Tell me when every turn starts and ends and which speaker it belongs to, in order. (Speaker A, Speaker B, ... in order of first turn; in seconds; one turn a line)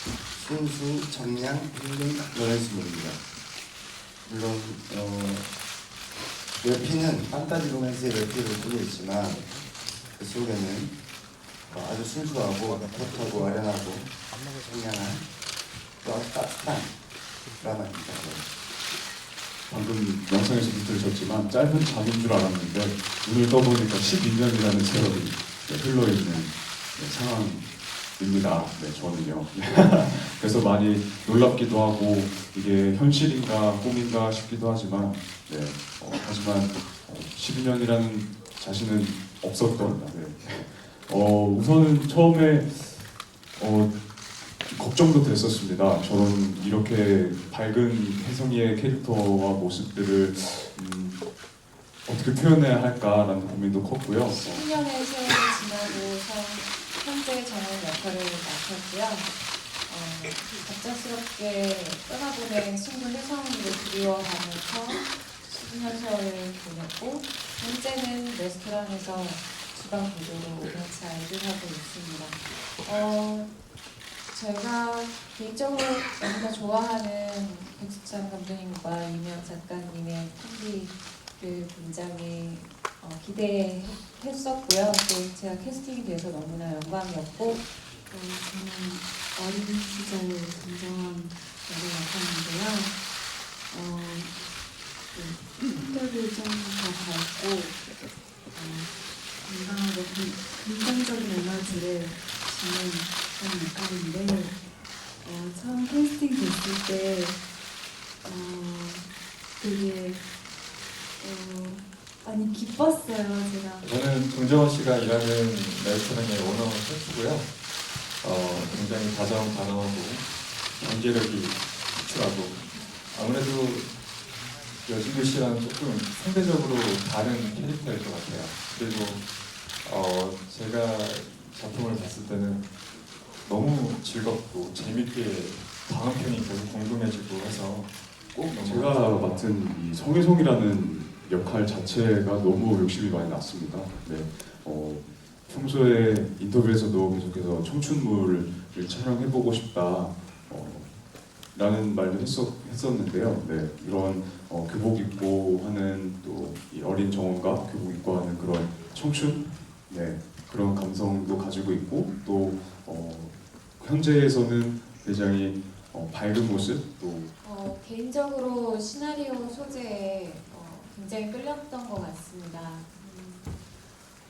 Speaker A: 0.3-3.2
Speaker A: 4.2-5.5
Speaker A: 6.6-9.5
Speaker A: 10.2-11.0
Speaker A: 11.7-15.3
Speaker A: 16.0-17.0
Speaker A: 17.6-18.4
Speaker B: 19.7-43.9
Speaker B: 44.6-51.2
Speaker B: 52.0-54.6
Speaker C: 54.5-73.5
Speaker C: 74.3-87.7
Speaker D: 88.1-93.0
Speaker D: 93.7-94.4
Speaker D: 95.1-97.8
Speaker D: 98.5-107.4
Speaker D: 108.2-110.3
Speaker D: 111.2-113.8
Speaker E: 113.8-117.5
Speaker E: 118.2-124.0
Speaker E: 124.8-129.3
Speaker E: 129.8-132.7
Speaker E: 133.4-139.5
Speaker B: 138.5-167.3
Speaker C: 167.4-173.6